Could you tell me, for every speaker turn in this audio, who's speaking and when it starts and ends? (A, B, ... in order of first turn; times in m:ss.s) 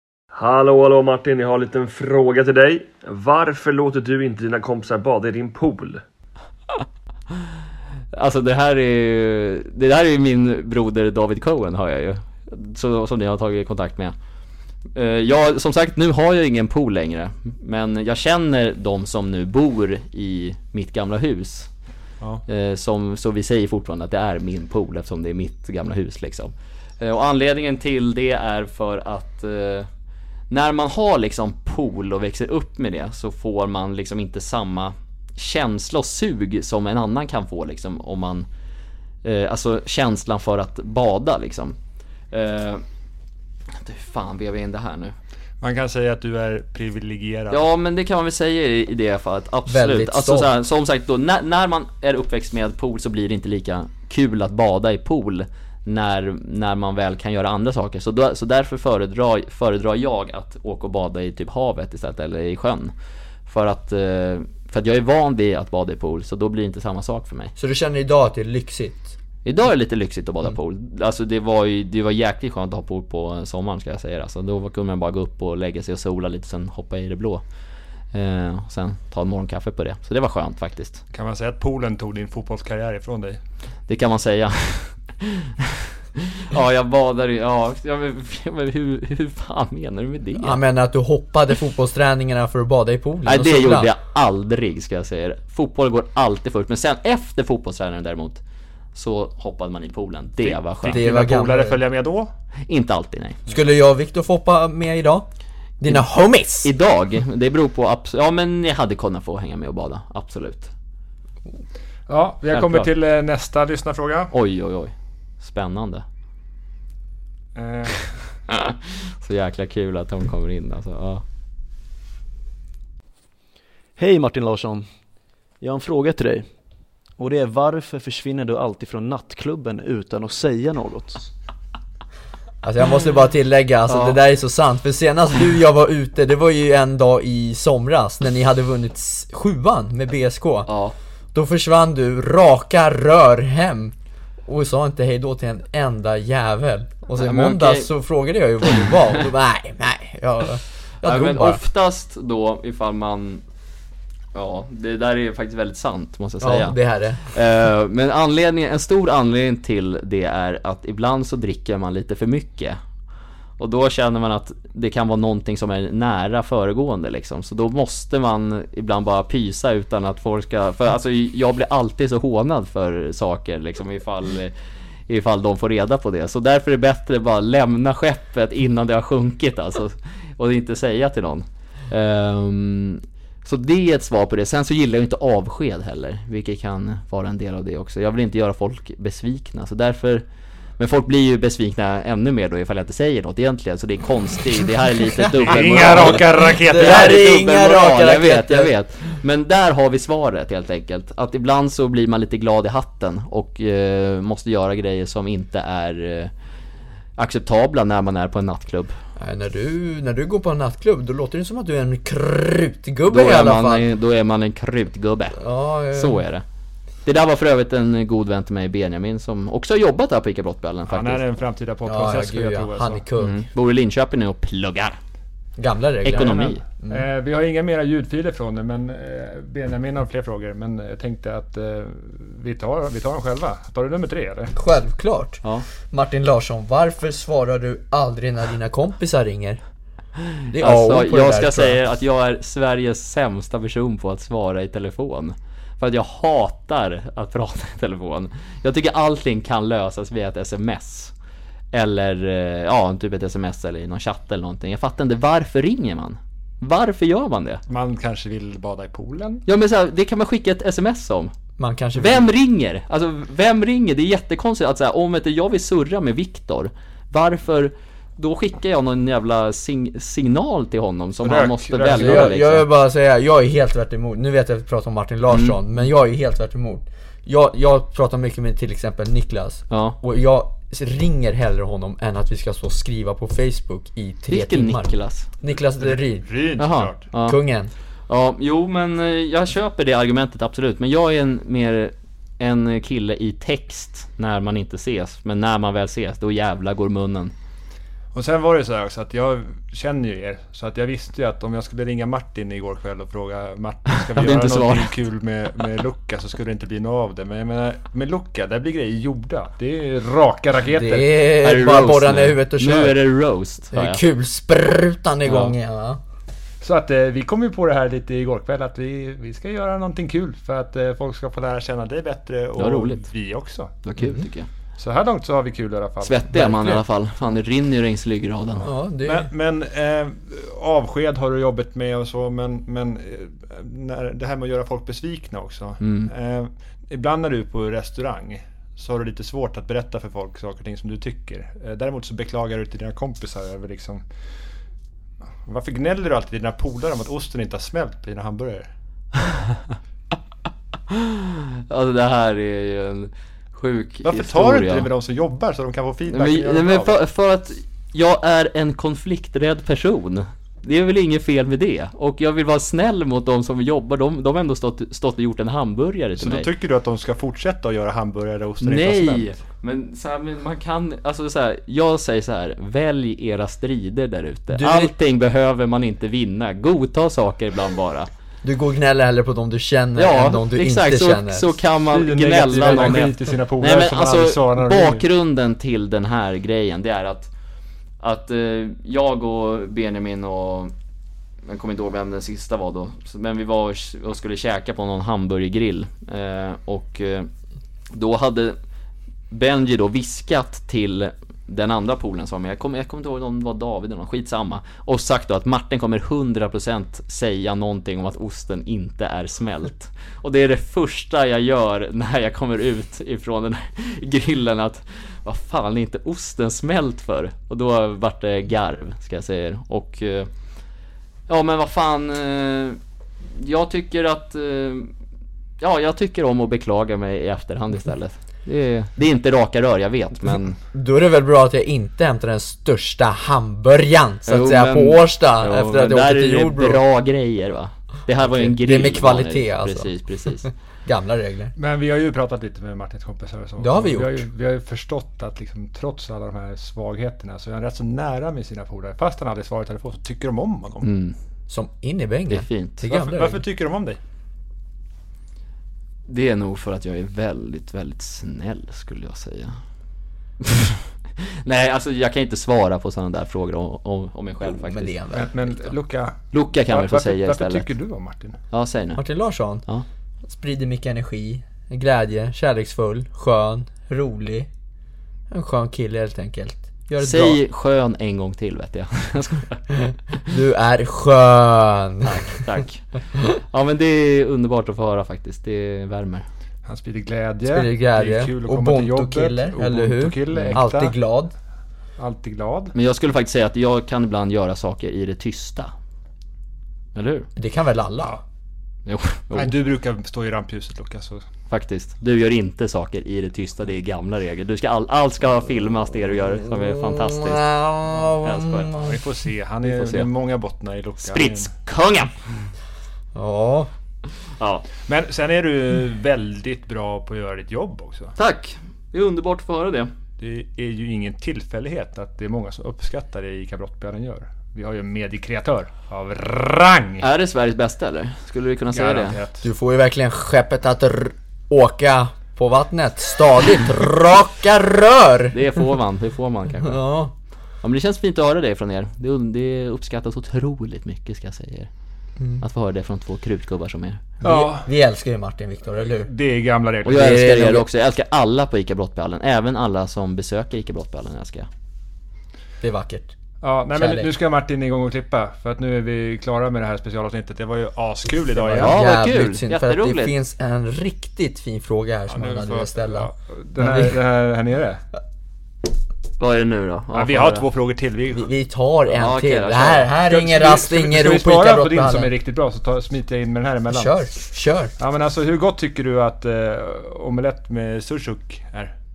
0:00.3-0:06.0 A
0:08.1-0:14.1 B
0:14.9-0:21.7 B
0:22.5-0:29.9 B
0:30.5-0:38.4 B
0:39.2-0:41.8 B
0:42.3-0:42.8 B
0:43.8-0:45.1 B
0:45.6-0:47.6 C
0:47.5-1:02.9 B
0:49.7-0:50.5 D
1:03.4-1:07.5 B
1:07.6-1:09.2 D
1:09.4-1:17.4 B
1:18.1-1:21.0 B
1:21.1-1:23.4 C
1:23.9-1:30.6 B
1:30.4-1:33.9 D
1:33.2-1:38.4 B
1:38.9-1:41.0 B
1:40.4-1:42.3 C
1:40.9-1:41.8 D
1:42.7-1:43.4 B
1:43.5-1:45.3 D
1:45.8-1:46.7 D
1:46.6-1:50.7 B
1:52.1-1:54.3 C
1:52.5-1:52.9 B
1:54.3-1:56.0 B
1:57.5-1:58.1 C
1:58.5-2:01.2 B
2:04.0-2:04.9 E
2:05.6-2:06.5 E
2:07.2-2:11.3 E
2:12.6-2:20.7 D
2:13.9-2:14.2 B
2:20.7-2:20.9 B
2:21.3-2:23.9 D
2:24.4-2:31.6 D
2:27.1-2:27.9 B
2:31.0-2:33.4 B
2:34.3-2:42.8 B
2:36.4-2:37.2 D
2:43.6-2:54.5 B
2:55.1-3:10.2 B
3:10.8-3:26.3 B
3:15.2-3:18.7 D
3:15.4-3:17.2 C
3:27.2-3:28.9 B
3:29.2-3:33.8 D
3:33.1-3:35.4 B
3:35.4-3:36.2 D
3:35.9-3:36.4 B
3:37.0-3:41.2 B
3:40.9-3:43.0 C
3:41.8-3:43.4 D
3:43.2-3:45.0 B
3:45.6-3:47.0 D
3:46.0-3:46.6 B
3:46.1-3:54.5 C
3:54.5-3:59.6 D
4:00.5-4:01.8 D
4:00.6-4:11.1 B
4:11.7-4:17.6 B
4:17.7-4:19.4 C
4:19.4-4:21.3 B
4:21.6-4:22.3 D
4:22.0-4:32.7 B
4:31.2-4:32.4 C
4:31.9-4:46.3 D
4:35.3-4:35.6 B
4:39.7-4:40.0 B
4:44.3-4:45.3 B
4:45.8-4:47.1 C
4:46.6-4:47.4 B
4:47.2-4:47.7 D
4:48.1-4:57.3 B
4:58.1-5:11.2 C
5:04.1-5:04.9 B
5:10.7-5:13.0 D
5:11.4-5:14.0 B
5:13.7-5:16.0 D
5:15.3-5:15.5 B
5:16.6-5:23.7 C
5:22.6-5:23.1 B
5:23.8-5:24.5 B
5:24.8-5:26.3 C
5:26.0-5:28.7 B
5:26.3-5:26.8 D
5:28.6-5:29.3 D
5:29.0-5:44.0 C
5:35.8-5:36.1 B
5:45.4-5:48.7 C
5:50.9-5:54.9 B
5:54.0-5:57.0 C
5:56.1-6:06.5 B
6:06.2-6:09.4 C
6:08.6-6:18.1 B
6:14.5-6:14.9 D
6:18.4-6:21.5 D
6:20.0-6:27.3 B
6:21.9-6:25.0 C
6:28.0-6:30.7 B
6:31.4-6:37.3 B
6:37.9-6:38.6 B
6:39.3-7:00.3 B
7:01.3-7:04.9 B
7:05.6-7:10.6 B
7:10.7-7:16.8 D
7:14.3-7:20.5 B
7:18.2-7:19.9 D
7:20.4-7:21.5 D
7:21.6-7:30.9 C
7:23.6-7:24.2 D
7:30.8-7:31.2 B
7:31.5-7:33.4 D
7:32.3-7:32.8 B
7:32.8-7:34.0 C
7:36.1-7:39.6 B
7:40.4-7:44.9 B
7:44.4-7:45.6 D
7:45.1-7:48.4 C
7:46.3-7:47.7 B
7:48.5-7:49.0 B
7:49.0-7:49.6 D
7:50.2-7:54.5 D
7:55.3-7:57.4 D
7:57.0-7:59.6 B
7:59.9-8:02.4 D
8:02.0-8:06.2 B
8:06.6-8:10.9 C
8:07.4-8:11.3 D
8:10.3-8:10.6 B
8:12.0-8:12.7 C
8:12.7-8:15.7 B
8:16.9-8:17.3 B
8:17.4-8:18.2 D
8:18.8-8:19.5 B
8:19.3-8:21.2 C
8:21.5-8:27.5 B
8:26.5-8:29.0 D
8:28.2-8:28.7 B
8:28.8-8:31.5 C
8:29.6-8:30.1 B
8:31.0-8:32.1 B
8:33.1-8:33.7 D
8:34.4-8:34.7 B
8:34.8-8:38.1 C
8:38.2-8:39.9 B
8:40.2-8:47.0 C
8:47.0-8:49.2 B
8:48.7-8:49.5 C
8:49.4-8:55.4 D
8:55.3-8:56.8 B
8:56.6-8:57.1 D
8:57.6-9:01.7 B
9:02.4-9:04.0 B
9:04.2-9:04.7 C
9:04.2-9:06.1 D
9:06.0-9:07.2 C
9:06.8-9:11.5 B
9:06.8-9:07.6 D
9:12.6-9:13.1 D
9:13.4-9:18.8 C
9:13.7-9:14.1 D
9:18.3-9:24.0 D
9:18.6-9:20.1 B
9:22.1-9:24.8 C
9:26.2-9:27.4 B
9:26.9-9:28.3 C
9:28.1-9:32.1 D
9:28.9-9:29.9 B
9:30.0-9:34.0 C
9:33.7-9:34.7 D
9:34.8-9:38.7 C